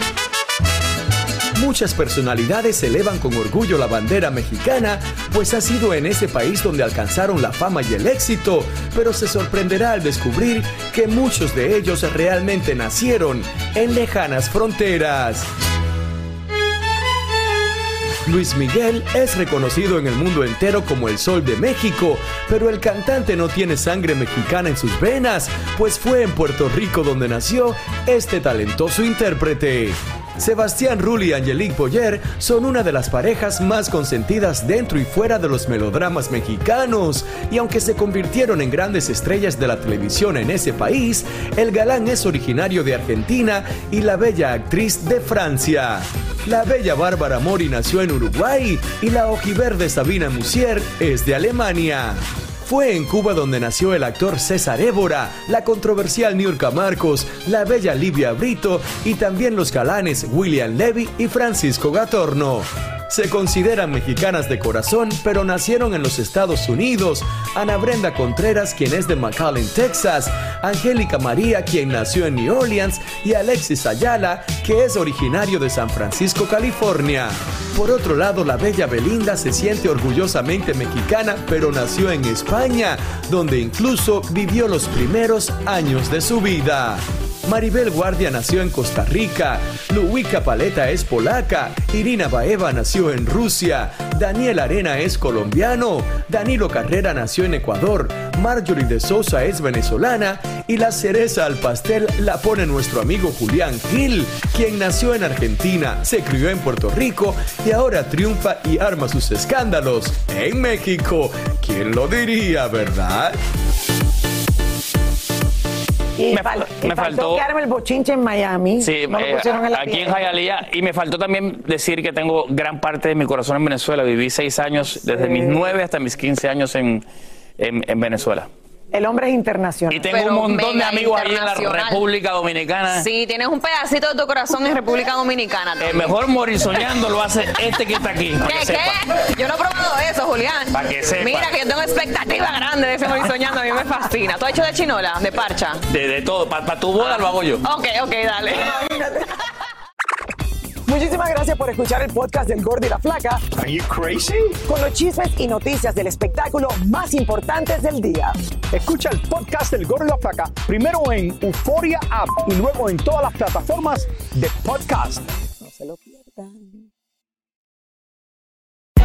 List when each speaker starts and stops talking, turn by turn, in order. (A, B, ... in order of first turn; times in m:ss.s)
0:01.6-0:15.5 A
0:18.2-1:53.4 A
1:56.2-2:00.3 B
1:56.3-1:57.5 C
1:58.8-2:07.0 C
2:05.1-2:05.6 B
2:07.6-2:08.5 C
2:08.9-2:10.1 B
2:09.9-2:13.0 C
2:10.1-2:12.0 D
2:12.9-2:16.1 D
2:15.8-2:19.0 C
2:18.4-2:25.8 D
2:20.7-2:21.6 C
2:25.9-2:27.6 C
2:27.6-2:28.7 D
2:28.5-2:29.3 B
2:30.8-2:33.4 B
2:33.6-2:34.6 E
2:34.7-2:38.4 B
2:38.7-2:45.3 E
2:45.6-2:46.8 B